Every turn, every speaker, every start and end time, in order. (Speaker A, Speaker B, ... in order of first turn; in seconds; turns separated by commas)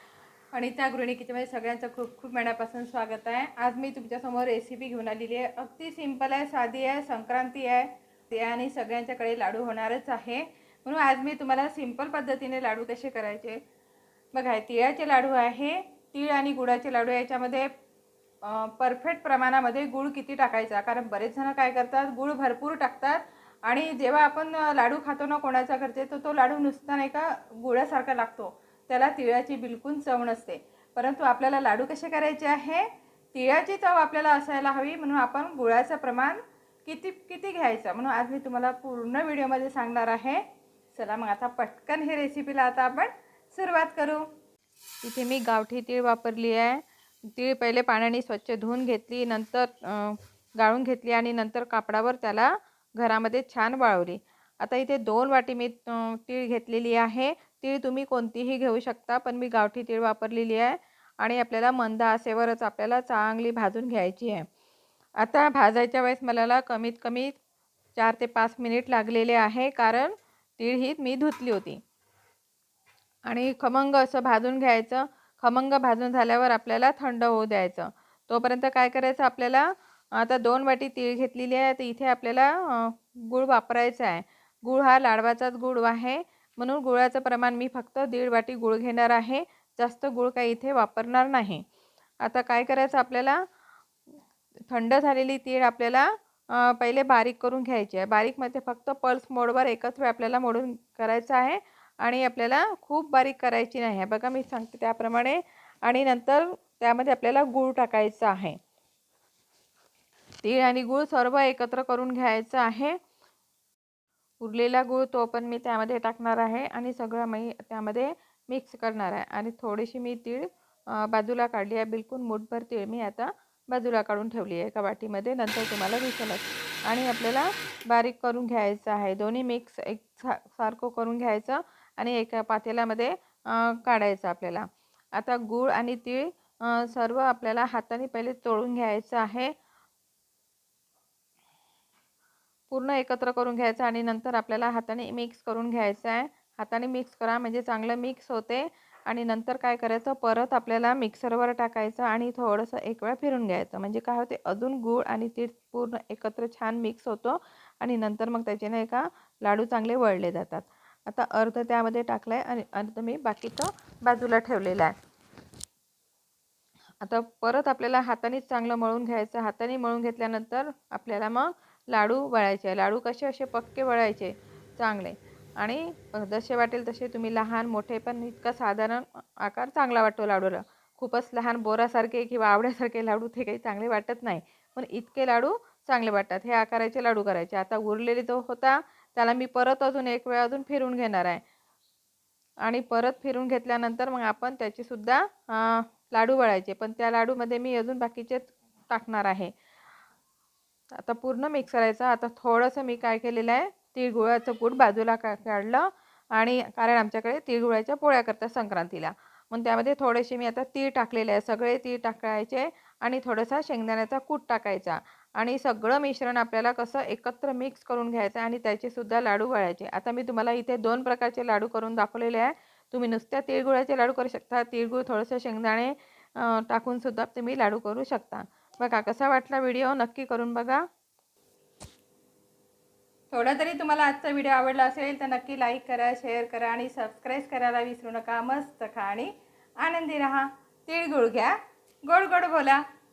Speaker A: 0.5-13.6, Speaker A: 14.3-17.7, Speaker A: 18.4-44.2, Speaker A: 45.0-64.5, Speaker A: 65.2-67.3, Speaker A: 68.0-71.8, Speaker A: 73.3-91.6, Speaker A: 92.2-93.4, Speaker A: 94.7-108.6, Speaker A: 110.4-113.0, Speaker A: 114.4-139.5, Speaker A: 142.7-164.9, Speaker A: 167.0-191.4, Speaker A: 192.6-199.5, Speaker A: 200.9-230.8, Speaker A: 233.3-241.5, Speaker A: 242.1-242.8